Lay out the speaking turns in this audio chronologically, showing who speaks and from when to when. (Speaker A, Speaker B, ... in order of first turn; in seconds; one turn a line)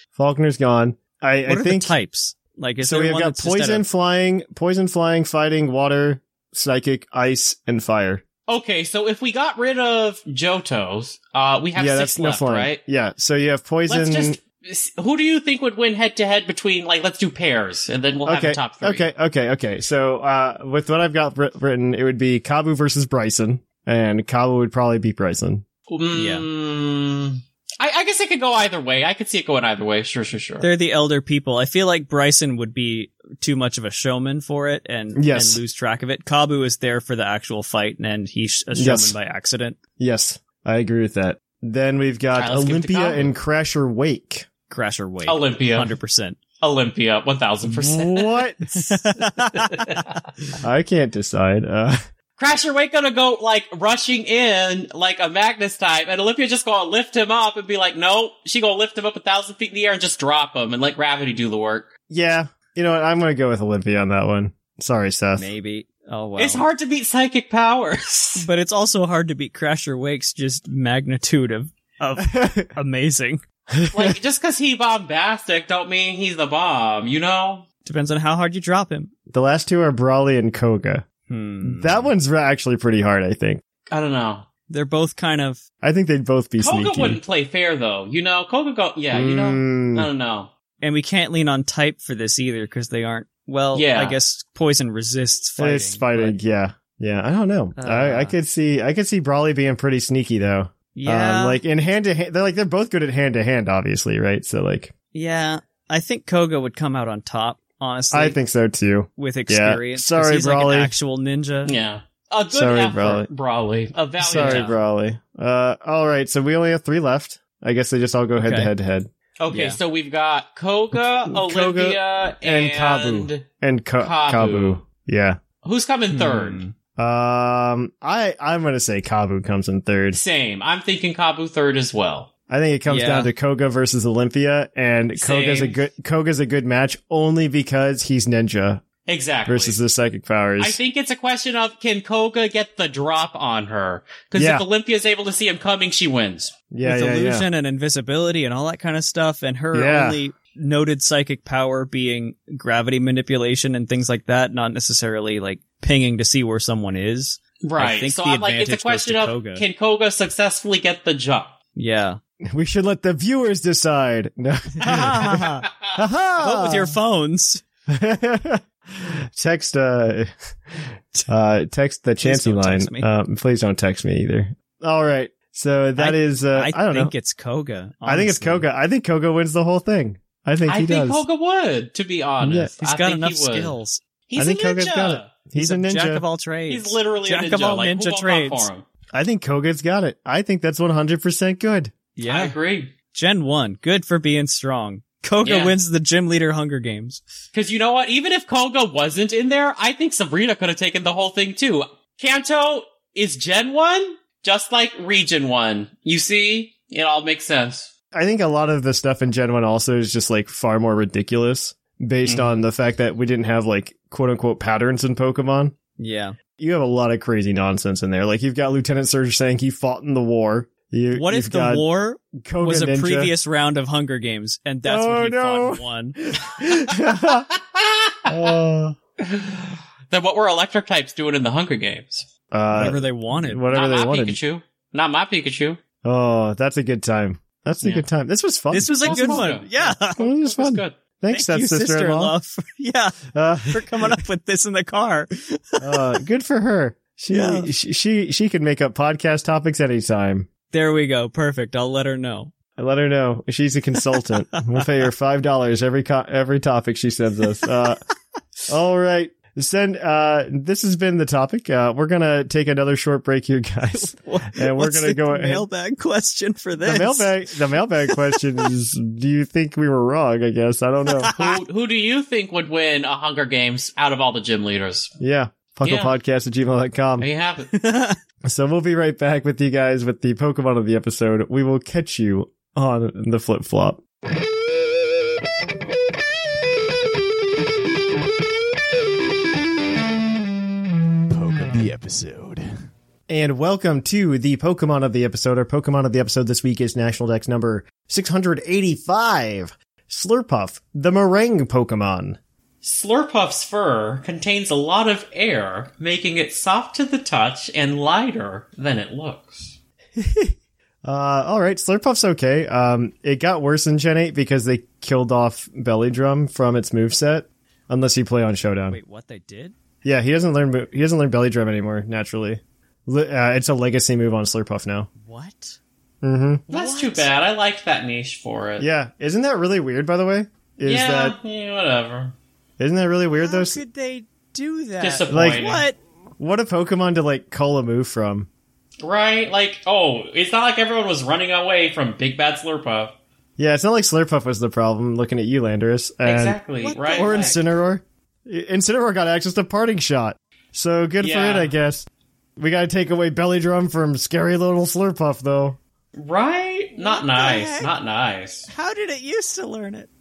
Speaker A: 0.2-1.9
Speaker B: 1.5-3.9
Speaker A: 2.8-8.2
Speaker C: 8.5-12.8
Speaker A: 11.8-14.4
Speaker C: 13.9-19.1
Speaker A: 18.3-25.6
Speaker C: 25.9-30.7
Speaker B: 26.1-26.4
Speaker B: 30.6-39.8
Speaker A: 35.1-35.6
Speaker A: 38.8-39.2
Speaker A: 40.0-44.5
Speaker C: 42.3-43.3
Speaker B: 44.7-46.4
Speaker C: 45.2-45.9
Speaker C: 46.6-48.5
Speaker A: 47.6-48.8
Speaker B: 48.7-50.1
Speaker C: 49.4-50.0
Speaker A: 50.6-52.0
Speaker C: 52.4-61.9
Speaker A: 62.1-65.5
Speaker B: 65.4-66.6
Speaker C: 66.4-68.5
Speaker B: 68.4-73.4
Speaker A: 72.2-72.7
Speaker A: 73.7-74.2
Speaker C: 73.9-77.6
Speaker B: 77.8-79.1
Speaker A: 79.3-81.0
Speaker B: 81.3-82.1
Speaker A: 81.6-83.6
Speaker C: 83.9-84.5
Speaker B: 84.7-85.6
Speaker A: 85.8-87.2
Speaker C: 86.6-90.5
Speaker A: 89.1-90.1
Speaker B: 90.8-96.4
Speaker C: 93.7-94.2
Speaker A: 95.6-104.9
Speaker B: 97.8-98.4
Speaker B: 100.9-101.6
Speaker B: 105.1-108.4
Speaker A: 108.1-110.9
Speaker B: 109.2-111.7
Speaker C: 111.6-114.7
Speaker A: 112.5-113.3
Speaker A: 114.2-119.1
Speaker B: 114.3-114.7
Speaker B: 118.4-118.7
Speaker C: 119.4-123.5
Speaker B: 119.5-119.8
Speaker A: 121.2-125.4
Speaker C: 124.0-124.8
Speaker C: 125.6-126.6
Speaker B: 126.1-126.7
Speaker A: 127.0-130.2
Speaker C: 130.1-132.3
Speaker A: 132.5-138.8
Speaker B: 132.9-133.3
Speaker C: 135.2-135.8
Speaker C: 139.1-139.8
Speaker A: 139.4-140.8
Speaker C: 140.6-146.5
Speaker A: 144.4-144.7
Speaker A: 146.7-147.5
Speaker B: 146.8-159.6
Speaker A: 149.7-150.2
Speaker C: 157.6-161.6
Speaker B: 161.7-162.2
Speaker A: 162.5-167.0
Speaker B: 164.8-165.7
Speaker B: 166.4-167.6
Speaker A: 167.9-170.3
Speaker A: 171.3-177.1
Speaker B: 172.2-173.1
Speaker B: 176.0-178.7
Speaker A: 178.1-181.2
Speaker C: 180.7-183.8
Speaker A: 182.4-182.7
Speaker B: 182.8-184.0
Speaker C: 184.3-185.3
Speaker A: 184.4-186.2
Speaker B: 185.6-188.7
Speaker C: 186.7-188.8
Speaker A: 189.1-191.9
Speaker B: 192.2-192.6
Speaker C: 192.2-192.9
Speaker B: 193.1-197.2
Speaker C: 195.4-195.7
Speaker C: 197.5-207.9
Speaker A: 208.1-215.7
Speaker C: 212.2-212.6
Speaker B: 216.0-216.4
Speaker A: 216.6-223.3
Speaker B: 221.1-226.2
Speaker A: 224.8-227.5
Speaker C: 227.5-228.5
Speaker A: 228.3-229.0
Speaker C: 229.2-232.3
Speaker A: 232.5-234.4
Speaker B: 232.7-233.7
Speaker C: 233.7-235.8
Speaker A: 236.0-239.5
Speaker B: 238.7-240.2
Speaker C: 239.0-240.9
Speaker A: 240.1-242.3
Speaker B: 241.3-246.2
Speaker A: 243.3-244.2
Speaker A: 245.8-250.5
Speaker B: 247.3-247.7
Speaker B: 250.7-252.5
Speaker A: 252.8-258.0
Speaker A: 258.7-265.6
Speaker B: 263.9-267.4
Speaker A: 266.8-271.3
Speaker B: 268.1-268.4
Speaker B: 271.1-271.5
Speaker C: 271.3-275.1
Speaker A: 275.2-277.3
Speaker C: 275.8-276.1
Speaker C: 277.2-277.7
Speaker B: 277.7-278.2
Speaker A: 278.4-284.0
Speaker A: 293.3-302.4
Speaker C: 302.8-309.8
Speaker A: 310.2-310.5
Speaker A: 311.1-319.0
Speaker B: 318.9-319.7
Speaker A: 320.0-325.1
Speaker B: 325.2-325.8
Speaker A: 326.2-326.7
Speaker C: 326.7-328.9
Speaker B: 326.7-327.3
Speaker A: 328.8-331.4
Speaker C: 330.9-332.3
Speaker A: 332.8-333.8
Speaker B: 333.4-336.0
Speaker C: 335.0-335.9
Speaker A: 335.3-335.7
Speaker A: 336.4-338.5
Speaker C: 339.0-343.1
Speaker A: 343.6-346.6
Speaker C: 346.2-347.6
Speaker B: 346.8-347.6
Speaker A: 347.1-352.1
Speaker C: 351.2-351.7
Speaker A: 352.6-355.8
Speaker C: 356.1-358.7
Speaker B: 357.0-357.9
Speaker B: 358.7-360.1